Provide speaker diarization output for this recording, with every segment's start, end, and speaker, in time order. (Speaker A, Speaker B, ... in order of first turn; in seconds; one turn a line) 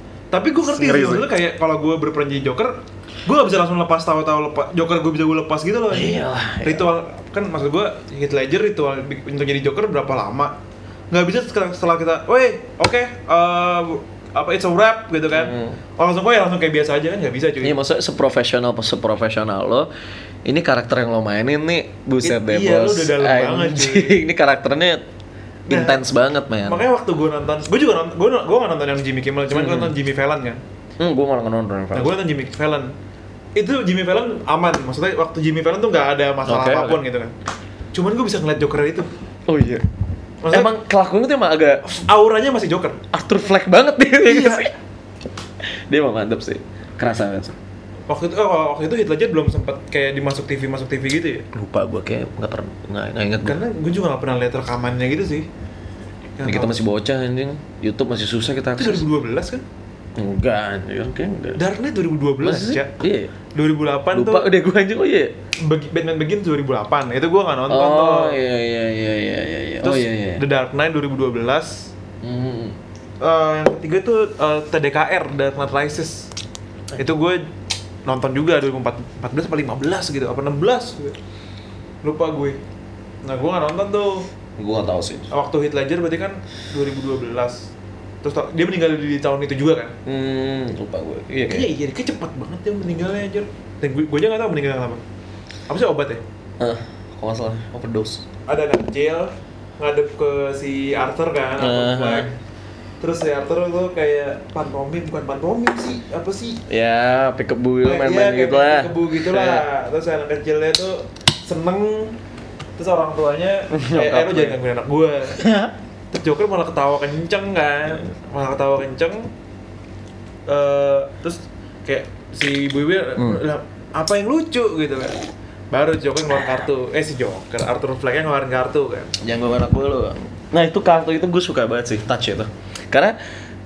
Speaker A: 0.3-10.6
Speaker B: 0.6-1.3
Speaker B: 5.9-6.9
Speaker A: 11.1-17.8
Speaker B: 15.3-15.8
Speaker B: 17.6-19.9
Speaker B: 20.4-25.0
Speaker A: 22.2-24.2
Speaker A: 25.7-26.0
Speaker B: 25.7-26.9
Speaker A: 26.6-30.6
Speaker B: 29.5-29.9
Speaker B: 31.0-32.2
Speaker A: 31.9-32.9
Speaker A: 33.6-37.3
Speaker B: 36.5-37.0
Speaker A: 37.9-39.1
Speaker B: 39.5-39.8
Speaker A: 40.4-40.7
Speaker B: 40.5-41.8
Speaker A: 41.8-43.0
Speaker B: 43.1-44.7
Speaker A: 44.2-44.7
Speaker B: 45.6-47.6
Speaker A: 48.1-51.5
Speaker B: 51.5-53.6
Speaker A: 53.4-55.5
Speaker A: 56.4-56.8
Speaker B: 56.5-59.0
Speaker A: 58.8-59.6
Speaker B: 60.2-61.6
Speaker A: 61.6-62.9
Speaker B: 62.4-63.3
Speaker A: 63.5-64.5
Speaker B: 64.1-65.3
Speaker A: 65.6-68.4
Speaker B: 67.7-70.4
Speaker A: 69.8-71.9
Speaker B: 72.2-72.8
Speaker A: 73.2-76.3
Speaker A: 77.0-77.4
Speaker A: 78.1-81.2
Speaker A: 82.0-82.6
Speaker A: 83.2-84.3
Speaker B: 84.6-85.3
Speaker A: 85.3-87.7
Speaker A: 88.2-90.0
Speaker B: 90.0-91.7
Speaker A: 91.5-95.0
Speaker A: 95.7-96.2
Speaker B: 96.6-98.3
Speaker A: 98.5-102.3
Speaker B: 101.6-102.3
Speaker A: 103.0-106.6
Speaker B: 106.7-109.7
Speaker A: 107.8-112.2
Speaker A: 112.8-115.4
Speaker B: 113.7-114.6
Speaker B: 115.4-115.7
Speaker A: 116.1-119.3
Speaker A: 120.5-125.2
Speaker B: 123.2-123.4
Speaker A: 125.7-129.2
Speaker B: 129.2-133.2